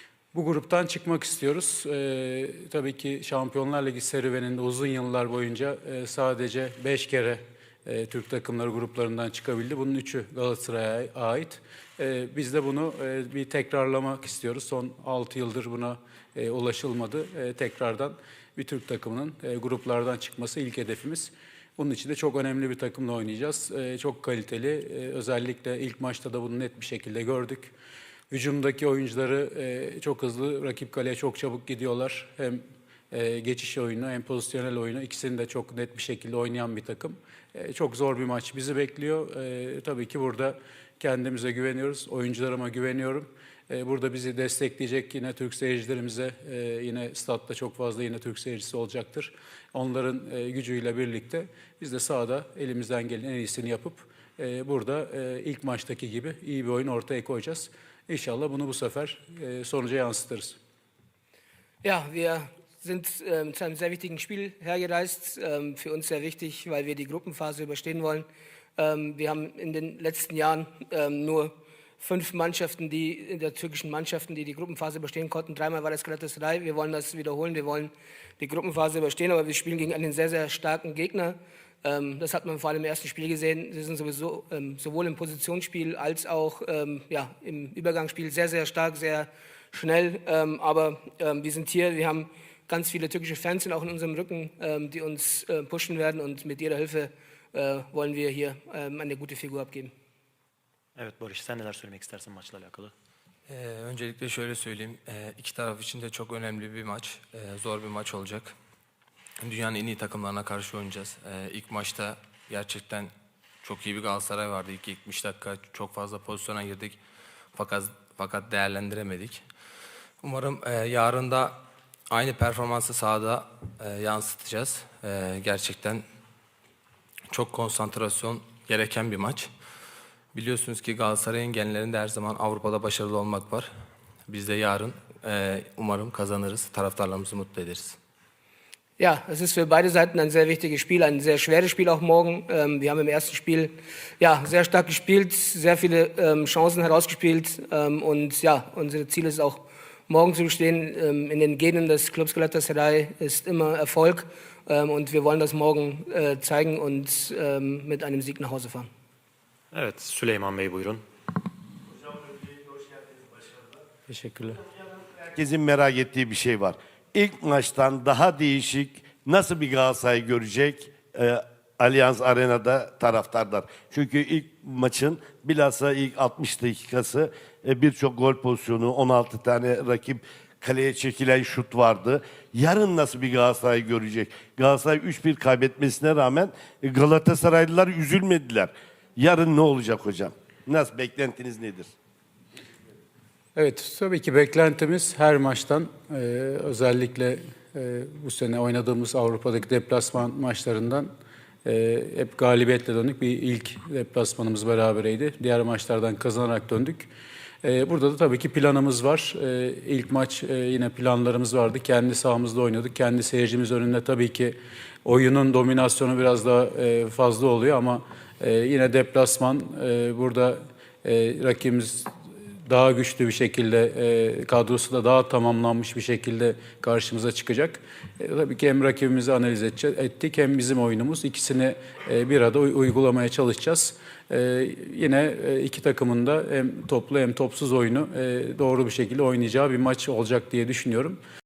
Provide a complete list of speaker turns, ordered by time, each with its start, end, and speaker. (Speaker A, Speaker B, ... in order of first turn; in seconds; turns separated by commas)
Speaker A: 0.3-27.7, Speaker A: 28.3-60.6, Speaker B: 61.8-99.9, Speaker C: 101.0-102.9, Speaker D: 103.5-108.5, Speaker D: 109.4-113.1, Speaker D: 113.6-117.0, Speaker D: 117.5-119.4, Speaker D: 120.2-126.0, Speaker D: 127.3-129.5, Speaker D: 130.3-133.7, Speaker D: 134.3-138.0, Speaker B: 139.0-158.9, Speaker C: 159.7-161.0, Speaker E: 162.0-163.5, Speaker A: 164.1-164.6, Speaker E: 165.1-191.9, Speaker A: 193.5-201.1, Speaker A: 201.6-207.1, Speaker A: 207.6-222.1, Speaker A: 222.7-241.2